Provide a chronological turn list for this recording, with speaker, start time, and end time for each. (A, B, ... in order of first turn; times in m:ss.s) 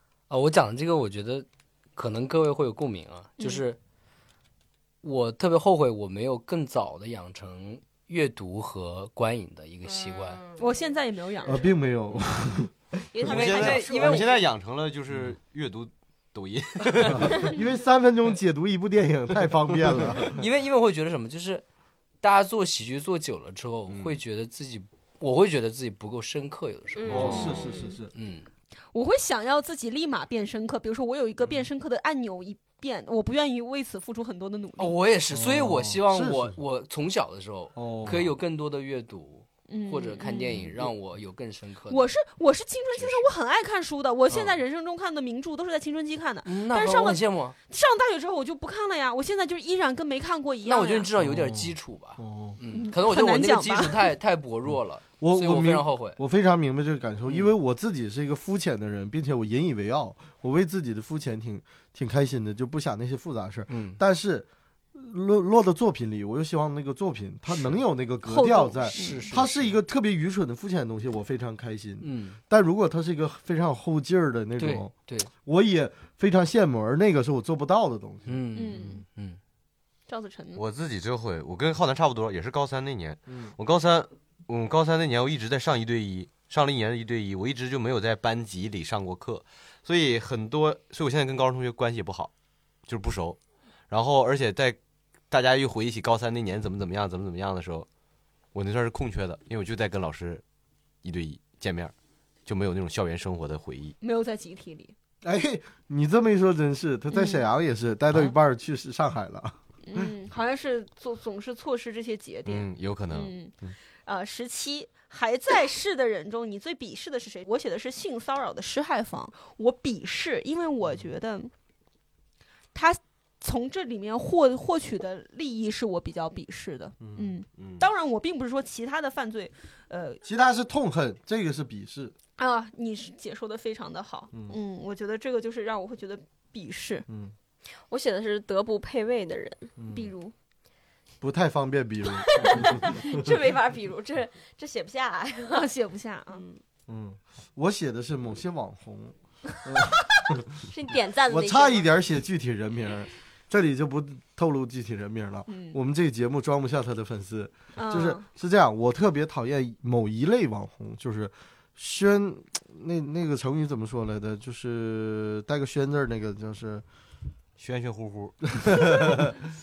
0:00.3-0:03.8 A
0:03.4-0:03.6 B
0:05.0-0:10.4 A
0:09.9-0:10.6 C
0:10.6-0:11.7 B
0:11.4-0:13.3 D
0:13.1-0:14.5 C
0:13.2-0:17.6 E
0:13.3-0:14.4 A
0:17.0-0:20.4 D
0:20.2-0:21.6 A
0:22.2-0:28.5 A
0:23.9-0:24.2 E
0:27.0-0:28.0 C
0:27.1-0:28.1 D
0:28.9-0:35.0 B
0:34.8-0:42.1 A
0:35.3-0:36.6 D
0:37.8-0:38.4 D
0:39.7-0:40.7 B
0:41.9-0:51.1 B
0:43.0-0:43.3 A
0:44.3-0:44.6 A
0:46.4-0:47.6 A
0:50.6-0:56.2 A
0:51.2-0:52.6 D
0:52.7-0:54.1 B
0:55.2-1:14.9 D
0:57.3-0:57.5 A
1:03.7-1:04.0 A
1:08.2-1:09.3 B
1:08.9-1:09.8 A
1:12.0-1:12.4 A
1:14.6-1:15.3 A
1:15.4-1:18.4 D
1:18.3-1:19.4 A
1:18.5-1:19.0 B
1:20.1-1:20.6 B
1:20.6-1:32.3 E
1:32.9-1:33.4 E
1:33.9-1:34.8 E
1:35.3-1:37.9 E
1:38.5-1:40.4 E
1:41.0-1:41.9 E
1:42.5-1:44.0 E
1:44.0-1:44.9 B
1:45.2-1:50.1 D
1:47.1-1:47.4 B
1:49.8-1:53.5 B
1:52.5-1:53.8 E
1:54.1-2:01.5 B
2:02.7-2:10.2 B
2:07.0-2:07.3 D
2:07.6-2:07.8 E
2:10.2-2:12.1 D
2:12.4-2:17.1 B
2:17.1-2:17.3 D
2:17.9-2:19.7 C
2:19.8-2:20.1 D
2:19.9-2:20.3 B
2:21.2-2:23.4 D
2:22.2-2:25.7 C
2:25.5-2:26.4 B
2:26.3-2:26.6 C
2:26.9-2:30.6 D
2:30.7-2:31.9 C
2:31.3-2:46.8 D
2:35.5-2:35.8 B
2:37.8-2:38.2 B
2:47.6-2:49.2 E
2:48.5-2:49.3 D